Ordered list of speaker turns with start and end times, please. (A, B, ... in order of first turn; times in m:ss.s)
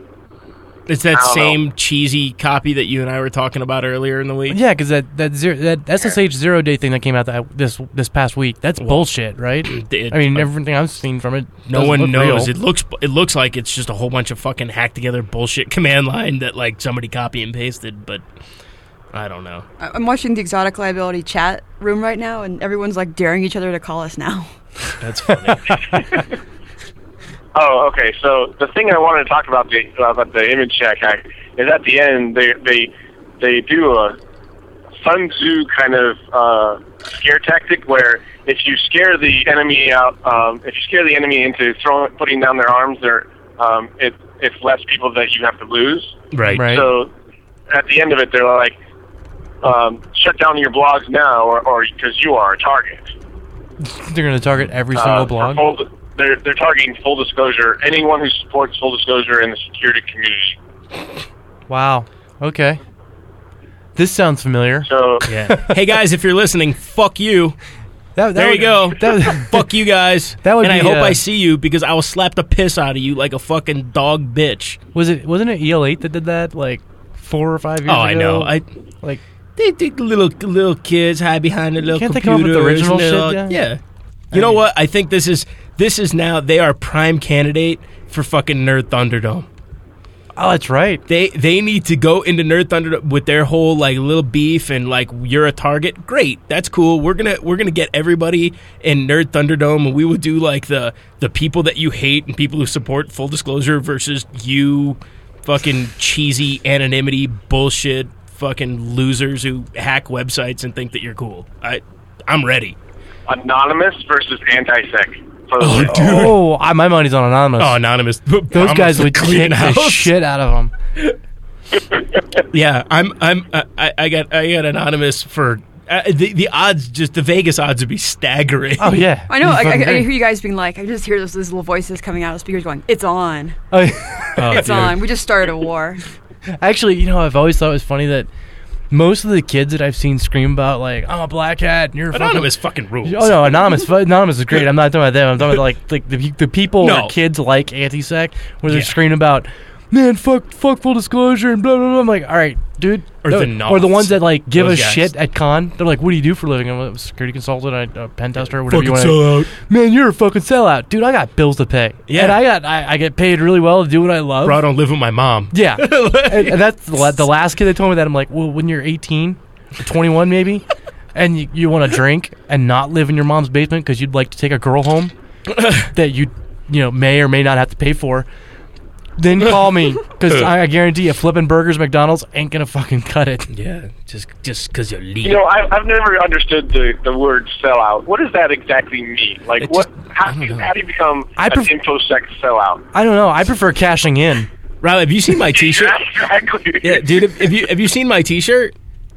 0:00.9-0:04.6 A
0:01.1-0:01.6 B
0:04.5-0:12.5 C
0:08.8-0:09.1 A
0:09.6-0:10.5 A
0:11.7-0:18.2 A
0:19.1-0:19.6 A
0:19.8-0:24.5 D
0:25.0-0:26.0 A
0:27.5-0:34.2 B
0:35.0-0:47.1 B
0:46.3-0:46.6 A
0:46.5-0:46.9 C
0:47.7-0:48.7 B
0:49.6-0:53.1 B
0:53.8-0:55.6 C
0:54.9-1:00.6 B
1:01.7-1:02.8 C
1:04.0-1:05.7 C
1:04.8-1:05.3 B
1:05.3-1:07.6 A
1:08.2-1:09.7 C
1:08.3-1:14.8 A
1:10.4-1:11.2 C
1:14.9-1:19.2 C
1:17.9-1:18.6 A
1:19.6-1:23.8 A
1:21.9-1:23.6 C
1:24.3-1:24.6 C
1:24.3-1:29.5 A
1:30.4-1:31.0 C
1:31.1-1:52.8 A
1:53.3-1:56.0 B
1:55.6-1:56.4 A
1:55.8-1:57.8 C
1:57.6-2:00.1 A
1:58.5-2:00.7 C
2:02.5-2:09.0 A
2:08.8-2:10.1 C
2:09.3-2:13.6 D
2:13.7-2:14.6 C
2:14.4-2:15.0 A
2:14.5-2:16.0 D
2:16.6-2:18.3 C
2:18.9-2:22.5 C
2:22.1-2:23.7 A
2:23.0-2:44.6 C
2:26.8-2:27.1 A
2:28.7-2:28.9 A
2:33.2-2:35.1 A
2:38.4-2:39.5 A
2:42.1-2:42.4 A
2:44.4-2:46.6 A
2:45.5-2:55.1 C
2:55.5-2:55.9 A
2:55.9-2:58.3 C
2:59.2-3:03.5 C
3:03.5-3:05.4 A
3:05.2-3:12.8 B
3:09.6-3:10.7 A
3:11.4-3:11.7 C
3:12.9-3:14.5 C
3:14.8-3:15.9 A
3:15.5-3:17.2 B
3:16.8-3:18.7 A